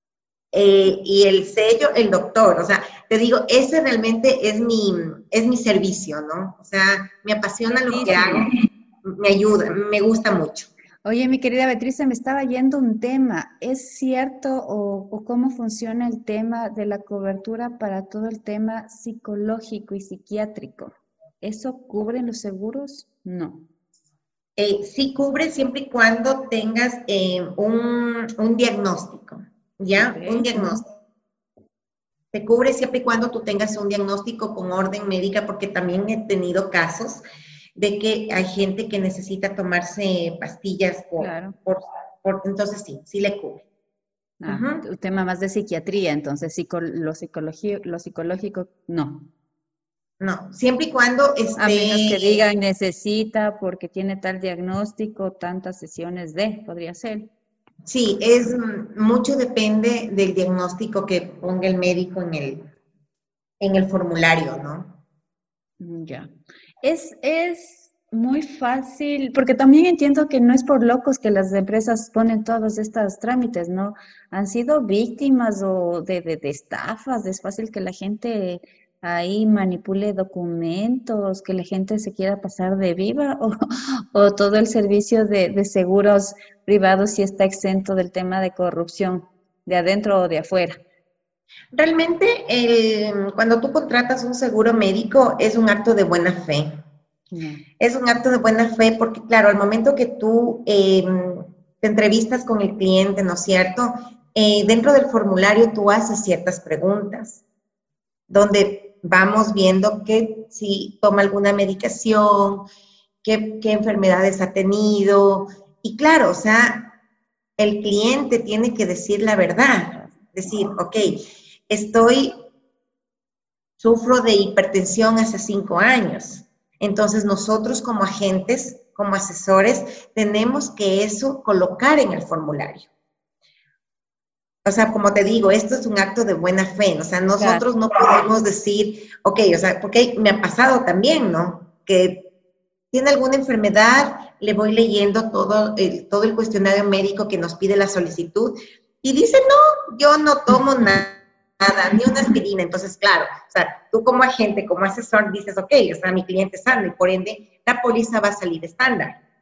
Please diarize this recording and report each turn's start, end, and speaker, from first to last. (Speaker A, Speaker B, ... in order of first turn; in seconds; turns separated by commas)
Speaker A: 0.5-10.7, Speaker B: 7.9-8.4, Speaker B: 11.0-23.6, Speaker A: 24.6-30.8, Speaker B: 29.9-30.8, Speaker A: 32.3-37.2, Speaker A: 37.8-43.6, Speaker B: 41.2-41.6, Speaker B: 44.4-49.3, Speaker A: 44.5-44.8, Speaker A: 50.2-52.4, Speaker B: 51.6-57.3, Speaker A: 57.9-62.7, Speaker A: 63.6-65.0, Speaker B: 65.8-66.3, Speaker B: 66.8-83.5, Speaker B: 84.1-90.8, Speaker A: 91.7-96.8, Speaker B: 97.3-97.6, Speaker A: 97.8-107.4, Speaker A: 108.3-112.7, Speaker A: 113.2-116.9, Speaker A: 117.6-122.4, Speaker A: 123.8-132.9, Speaker A: 134.6-142.3, Speaker B: 137.4-137.7, Speaker A: 142.9-159.2